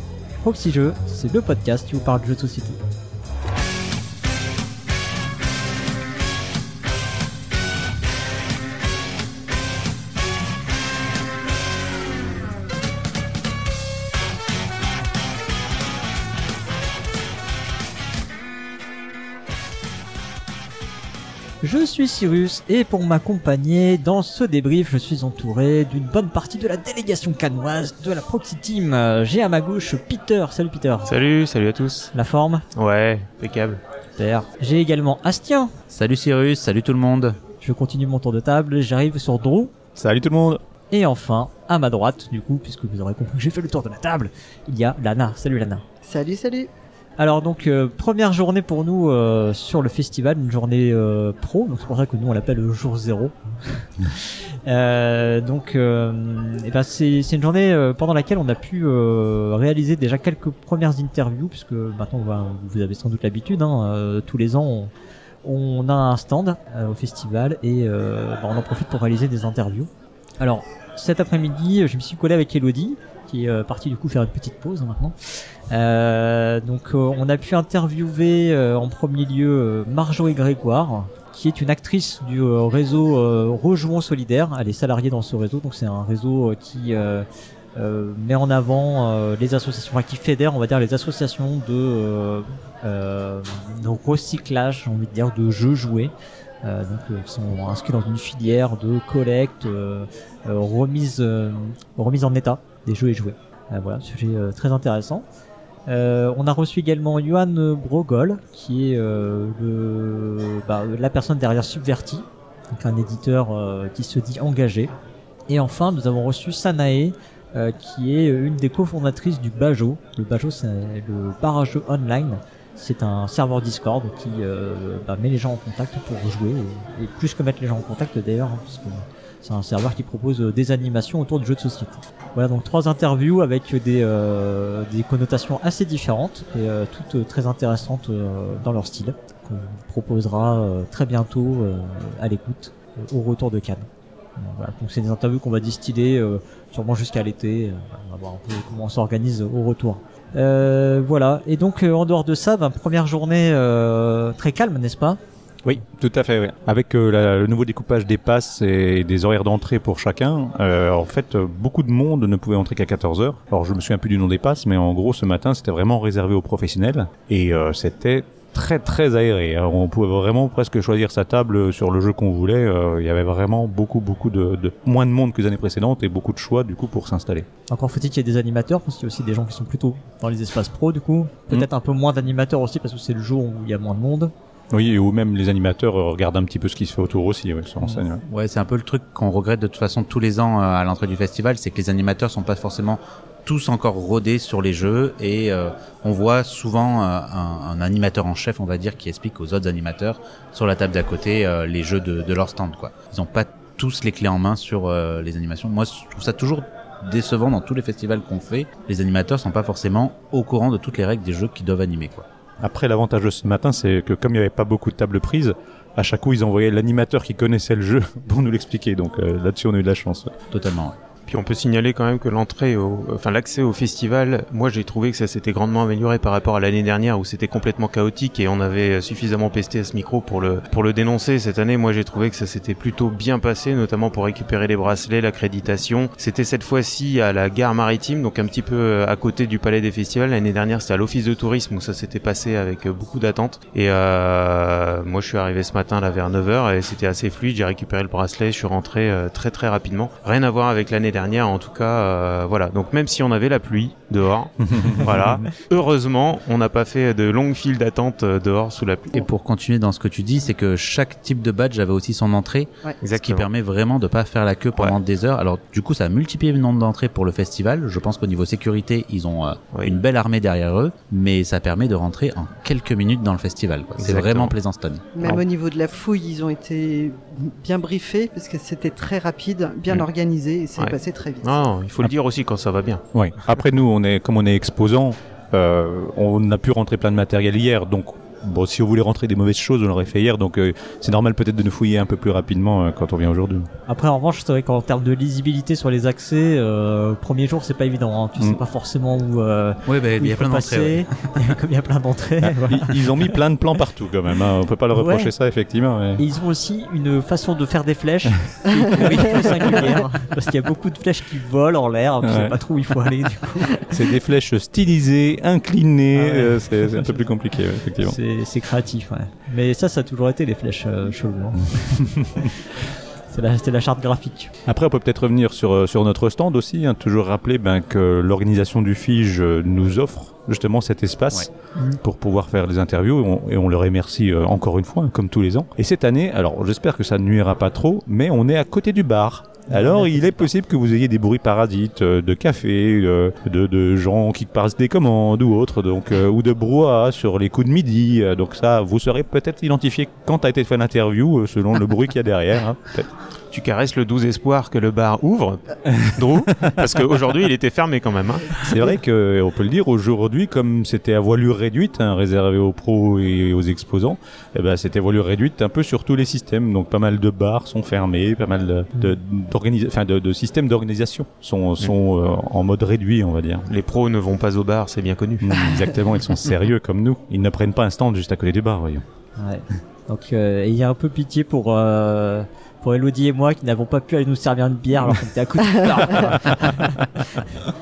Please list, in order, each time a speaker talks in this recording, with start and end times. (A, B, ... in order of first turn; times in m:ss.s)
0:00.4-0:02.8 A
0:21.6-0:31.1 A
0:31.1-0:32.1 B
0:32.1-0:32.6 A
0:32.8-0:33.8 B
0:34.2-0:35.7 A
0:35.9-0:37.4 C
0:37.6-0:39.7 A
0:40.0-0:40.6 D
0:40.9-0:45.8 A
0:46.0-0:46.7 E
0:47.2-1:04.9 A
1:05.4-1:15.2 A
1:15.7-1:45.3 A
1:45.9-1:54.9 A
1:55.5-2:35.2 A
2:35.6-2:57.5 D
2:57.7-3:04.3 A
3:04.7-3:08.2 D
3:08.3-3:32.3 C
3:32.6-3:40.3 D
3:40.5-3:41.0 C
3:41.3-4:19.2 B
4:14.7-4:15.4 D
4:19.1-4:35.4 C
4:23.0-4:23.5 B
4:34.0-4:34.6 B
4:35.2-4:41.6 E
4:40.8-4:43.0 B
4:43.1-4:53.7 D
4:53.9-5:03.3 A
4:59.9-5:01.4 C
5:02.6-5:06.2 D
5:04.9-5:05.3 A
5:06.2-5:13.9 A
5:09.0-5:09.7 C
5:12.2-5:12.6 D
5:13.9-5:18.2 D
5:16.1-5:17.3 A
5:18.0-5:24.5 A
5:24.7-5:53.1 D
5:39.7-5:40.5 A
5:53.5-5:58.8 B
5:55.9-5:56.8 D
5:58.6-6:13.7 D
6:13.7-6:15.7 B
6:15.4-6:19.0 D
6:19.4-6:27.5 A
6:25.0-6:27.2 D